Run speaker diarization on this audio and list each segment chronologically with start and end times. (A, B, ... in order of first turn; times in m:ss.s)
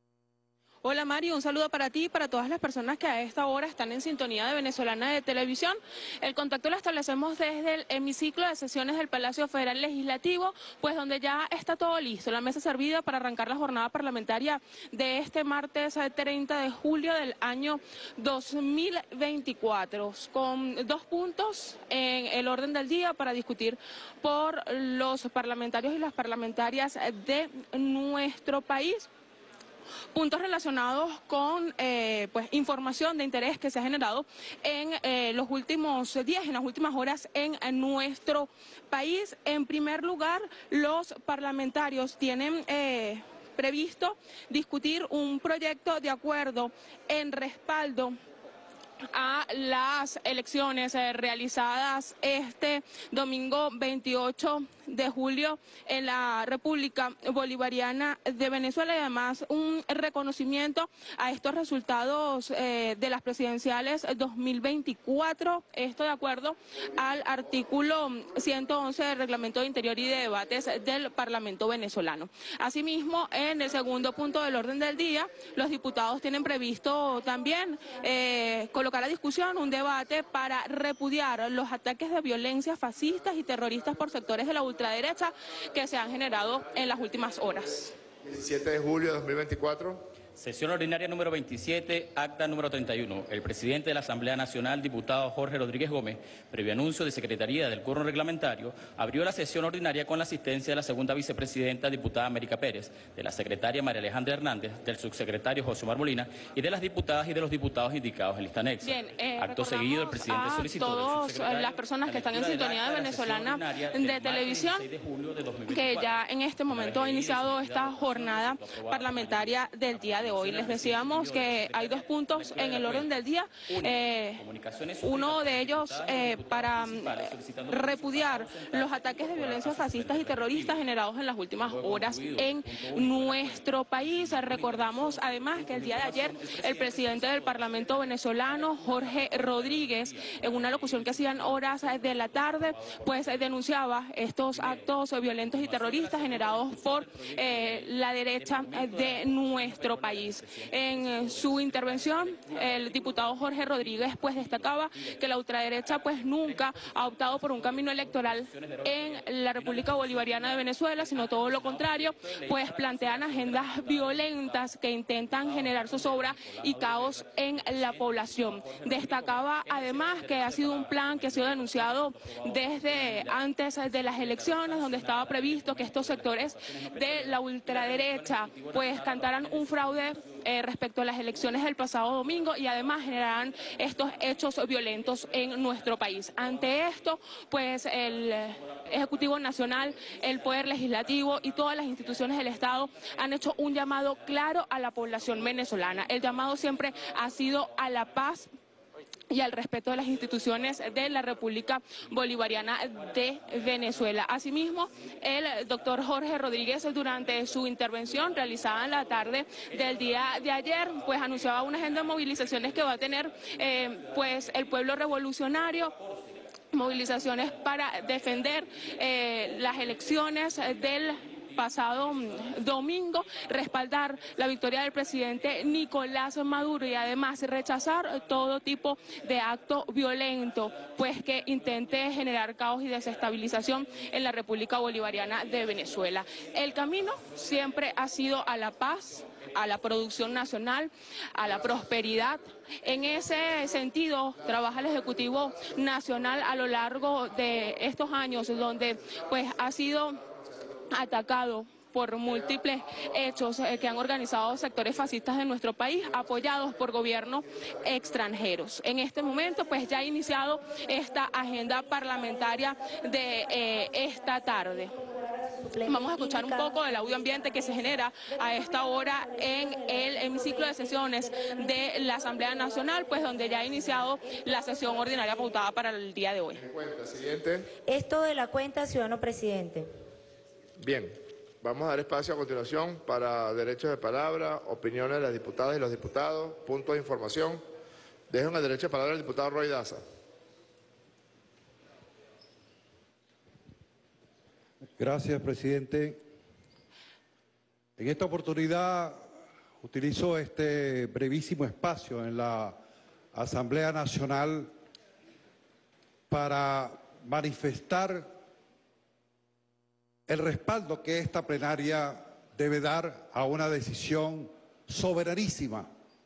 0:00.8-0:29.1 A
0:30.1-0:48.2 A
0:49.1-1:27.9 A
1:28.2-1:30.0 B
1:30.4-2:03.1 C
1:48.8-1:54.9 A
1:55.7-2:04.4 A
2:03.7-2:10.8 C
2:05.0-3:18.5 A
2:11.6-2:23.6 C
2:24.5-2:35.2 C
2:35.7-2:44.7 C
2:45.3-3:00.0 C
3:19.3-3:35.9 A
3:36.7-4:10.2 A
4:10.9-4:24.9 A
4:19.5-4:19.9 D
4:20.6-4:35.6 D
4:25.8-4:36.6 A
4:36.6-4:37.7 B
4:37.9-4:39.9 D
4:40.8-4:47.6 B
4:48.3-4:50.0 B
4:55.0-4:56.2 E
4:58.0-4:59.2 E
4:59.8-5:02.8 E
5:03.3-5:04.7 E
5:06.3-5:08.3 E
5:10.3-5:15.9 E